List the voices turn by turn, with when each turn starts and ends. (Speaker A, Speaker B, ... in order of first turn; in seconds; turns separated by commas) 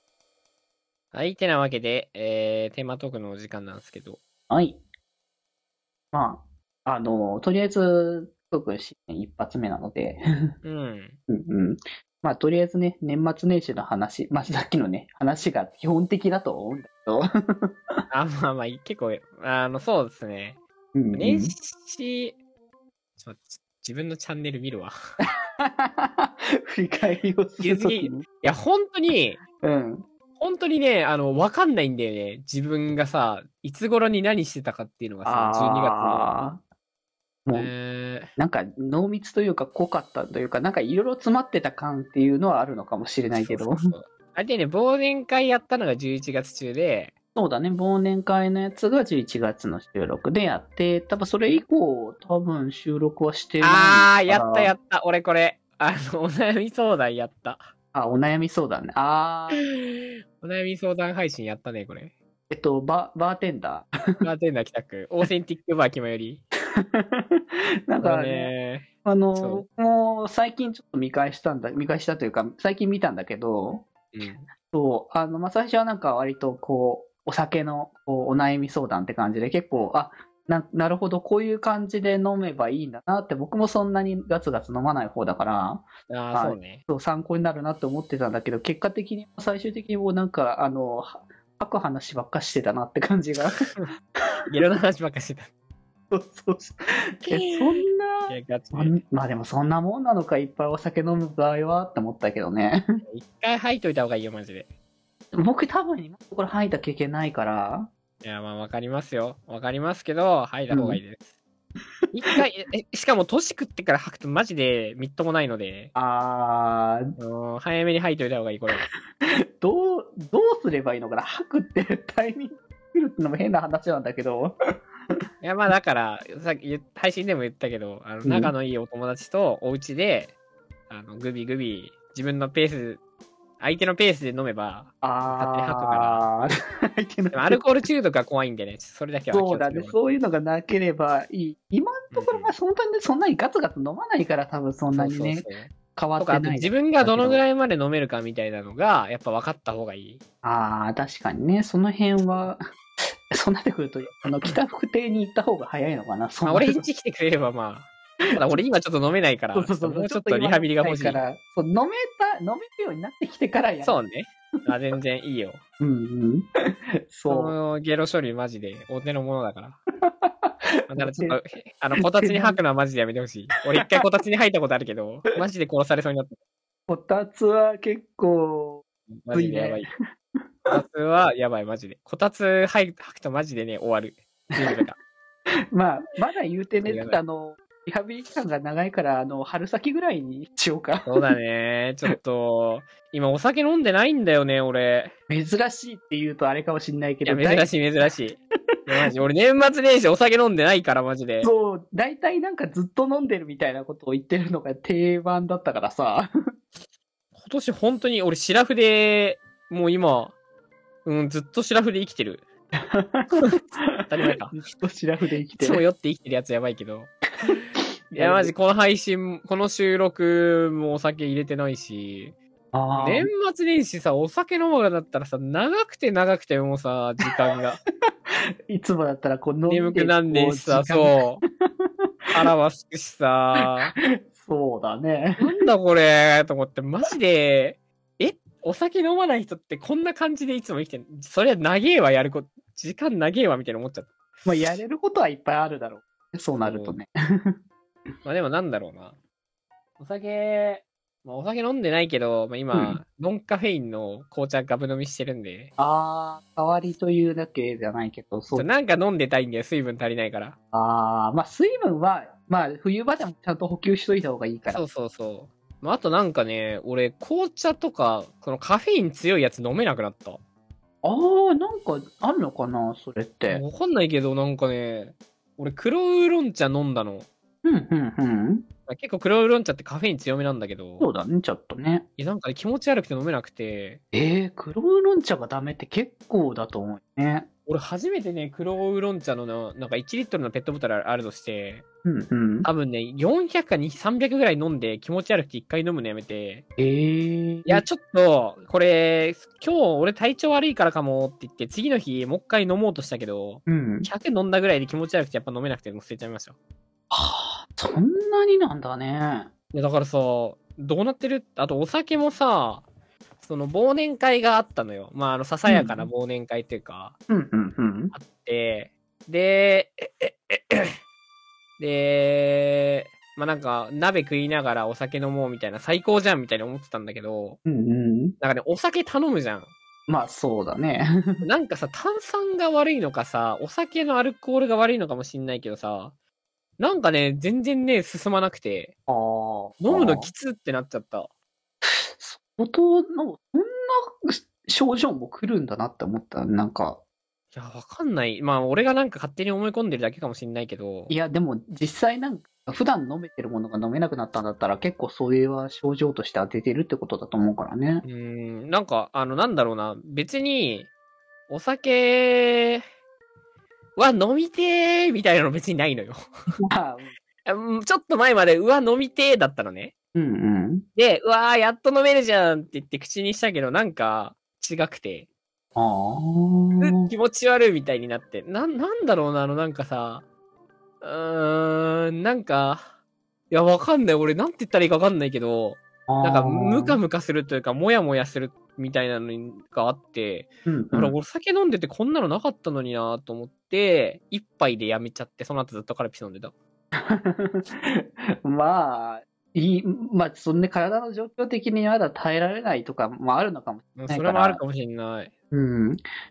Speaker A: 1.1-4.2, Speaker B: 4.5-4.8, Speaker B: 6.1-10.2, Speaker A: 10.6-11.2, Speaker B: 11.3-17.7, Speaker A: 18.1-20.6, Speaker B: 20.9-21.5, Speaker A: 21.1-22.4, Speaker A: 23.2-24.9, Speaker B: 25.6-28.2, Speaker A: 27.6-29.4, Speaker B: 29.6-30.1, Speaker A: 30.4-36.3, Speaker B: 35.2-36.6, Speaker B: 37.5-37.7, Speaker A: 37.5-38.3, Speaker B: 38.4-43.9, Speaker A: 43.3-47.1, Speaker B: 47.4-54.7, Speaker A: 53.6-57.7, Speaker B: 57.9-59.6, Speaker A: 59.5-62.1, Speaker B: 62.5-63.9, Speaker A: 64.2-66.4, Speaker B: 66.8-68.5, Speaker A: 68.0-69.6, Speaker B: 69.0-73.9, Speaker A: 74.1-74.5, Speaker B: 74.7-93.5, Speaker A: 86.1-86.8, Speaker A: 93.5-93.9, Speaker A: 94.5-95.5, Speaker B: 96.1-102.8, Speaker A: 97.3-99.0, Speaker A: 103.1-104.7, Speaker B: 105.3-107.9, Speaker A: 108.2-111.3, Speaker B: 110.7-111.0, Speaker A: 112.1-115.9, Speaker B: 115.9-117.1, Speaker A: 117.2-118.8, Speaker B: 119.6-124.5, Speaker A: 125.4-130.3, Speaker B: 128.2-128.5, Speaker A: 130.9-133.0, Speaker A: 133.6-136.3, Speaker B: 135.0-136.5, Speaker B: 137.0-137.6, Speaker A: 137.3-140.0, Speaker B: 139.3-147.4, Speaker A: 142.1-142.5, Speaker A: 144.9-150.2, Speaker B: 150.4-152.6, Speaker B: 153.3-156.8, Speaker A: 156.4-161.2, Speaker B: 159.5-164.0, Speaker A: 163.8-165.6, Speaker B: 165.8-166.5, Speaker B: 167.1-167.6, Speaker A: 167.3-169.8, Speaker B: 170.2-171.4, Speaker A: 170.9-176.4, Speaker B: 172.0-172.6, Speaker B: 176.9-179.9, Speaker A: 179.1-179.9, Speaker A: 180.7-185.0, Speaker B: 185.7-191.2, Speaker A: 186.8-187.2, Speaker A: 191.1-195.1, Speaker B: 195.3-197.7, Speaker A: 197.2-201.5, Speaker B: 201.4-206.3, Speaker A: 207.3-210.3, Speaker A: 211.0-212.4, Speaker B: 212.9-213.9, Speaker A: 213.3-214.5, Speaker B: 214.5-215.8, Speaker A: 215.6-222.3, Speaker B: 218.1-218.5, Speaker B: 222.7-223.3, Speaker A: 223.0-227.8, Speaker B: 228.7-231.2, Speaker A: 229.7-231.4, Speaker A: 232.3-233.9, Speaker B: 233.7-235.6, Speaker A: 235.4-244.1, Speaker B: 244.4-247.5, Speaker A: 246.6-246.9, Speaker A: 248.2-249.2, Speaker A: 250.0-255.7, Speaker B: 252.7-253.0, Speaker B: 255.8-258.7, Speaker A: 258.5-260.6, Speaker B: 260.7-264.8, Speaker A: 264.7-270.4, Speaker B: 271.0-273.6, Speaker A: 273.5-277.3, Speaker B: 277.6-278.6, Speaker A: 278.9-281.1, Speaker B: 281.0-282.1, Speaker A: 282.2-284.0, Speaker B: 284.1-287.5, Speaker A: 287.7-291.8, Speaker B: 292.0-292.7, Speaker A: 292.6-296.6, Speaker B: 296.8-297.8, Speaker A: 297.6-306.6, Speaker B: 303.7-304.1, Speaker B: 307.1-309.5, Speaker A: 309.7-312.9, Speaker A: 313.4-317.1, Speaker B: 315.6-316.1, Speaker B: 317.3-318.1, Speaker A: 318.1-321.0, Speaker A: 321.8-327.6, Speaker B: 327.6-328.3, Speaker A: 328.4-329.7, Speaker B: 330.1-331.4, Speaker A: 331.4-336.1, Speaker A: 336.8-338.9, Speaker B: 339.1-340.3, Speaker A: 339.8-341.3, Speaker B: 341.8-347.0, Speaker A: 347.5-351.1, Speaker B: 351.1-358.0, Speaker A: 358.0-360.9, Speaker A: 361.5-362.8, Speaker A: 363.9-366.3, Speaker B: 366.7-367.1, Speaker A: 367.4-369.9, Speaker B: 370.1-370.9, Speaker A: 370.9-375.3, Speaker B: 375.8-377.1, Speaker A: 376.8-380.2, Speaker A: 381.0-382.9, Speaker A: 383.5-396.5, Speaker B: 386.1-387.0, Speaker B: 390.6-391.1, Speaker B: 397.0-404.6, Speaker A: 403.9-405.3, Speaker B: 405.5-406.0